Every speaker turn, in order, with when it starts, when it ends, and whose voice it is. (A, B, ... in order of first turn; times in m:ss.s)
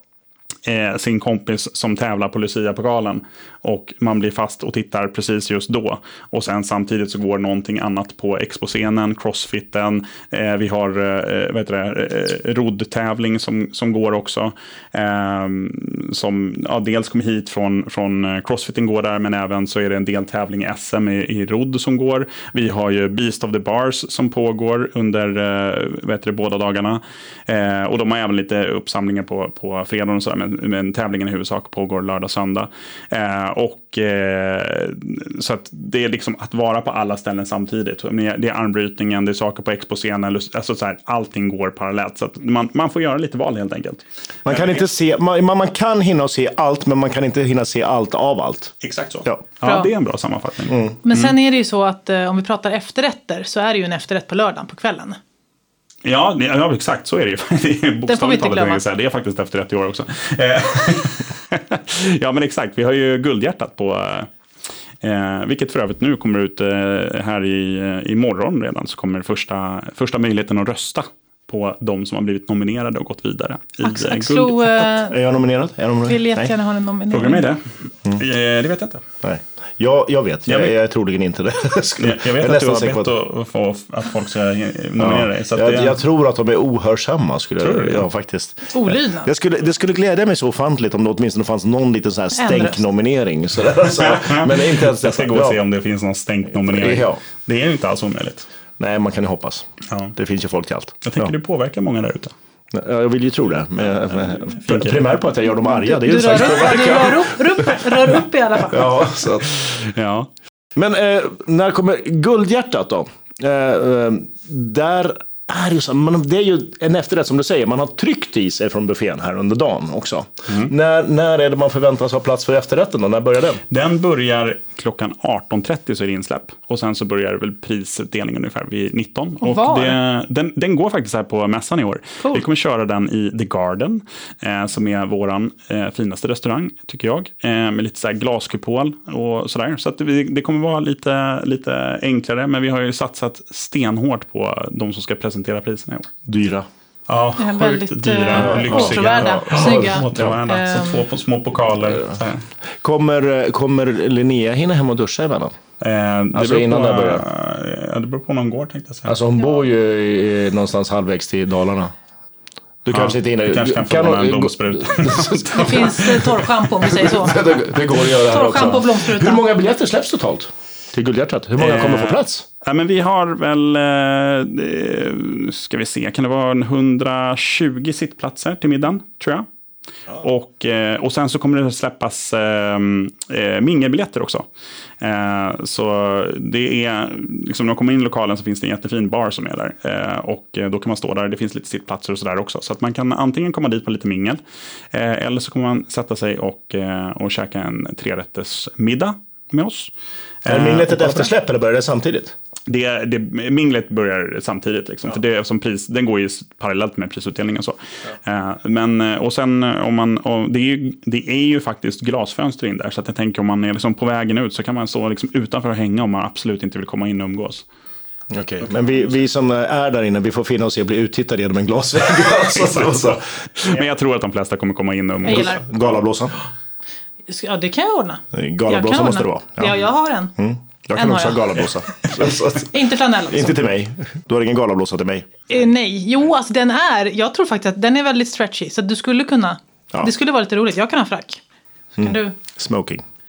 0:00.6-0:44.8 A
0:44.4-0:48.7 B
0:48.8-0:51.3 A
0:49.6-0:49.9 C
0:50.7-0:51.0 B
0:51.0-0:55.2 C
0:56.0-1:04.3 A
0:58.1-0:58.8 C
1:05.0-1:14.9 A
1:13.8-1:15.2 C
1:15.1-1:16.5 B
1:16.0-1:17.5 C
1:17.1-1:19.0 A
1:19.2-1:23.1 B
1:20.5-1:20.7 A
1:22.0-1:26.0 A
1:25.0-1:35.6 B
1:27.6-1:28.0 A
1:28.7-1:29.3 C
1:32.3-1:32.8 C
1:34.0-1:38.5 A
1:36.6-1:37.2 B
1:38.8-1:41.3 B
1:39.9-1:40.1 A
1:41.0-1:42.3 A
1:42.7-1:47.8 B
1:44.2-1:45.1 A
1:45.6-1:49.0 C
1:48.7-1:49.7 B
1:49.5-1:50.3 A
1:50.7-2:03.6 B
2:03.7-2:26.1 A
2:09.4-2:10.0 C
2:26.2-2:26.7 B
2:27.1-2:32.4 A
2:27.4-2:31.0 C
2:28.3-2:30.4 B
2:32.8-2:35.5 B
2:35.8-2:39.1 A
2:36.3-2:37.2 B
2:39.1-2:41.9 B
2:42.8-2:46.2 B
2:42.9-2:46.4 A
2:45.5-2:49.4 C
2:46.8-2:52.4 B
2:51.6-2:59.4 A
3:00.2-3:04.4 A
3:05.0-3:14.4 A
3:14.9-3:19.9 A
3:20.4-3:21.3 A
3:20.5-3:22.3 B
3:22.7-3:37.6 A
3:38.3-3:43.8 B
3:42.6-3:45.6 A
3:45.2-3:45.6 C
3:45.3-3:46.3 B
3:47.3-3:50.3 C
3:48.3-3:49.8 B
3:50.4-3:52.7 B
3:51.0-3:51.5 C
3:52.6-3:53.6 C
3:53.3-3:55.3 B
3:55.5-4:01.4 C
4:02.0-4:02.4 C
4:02.0-4:03.0 B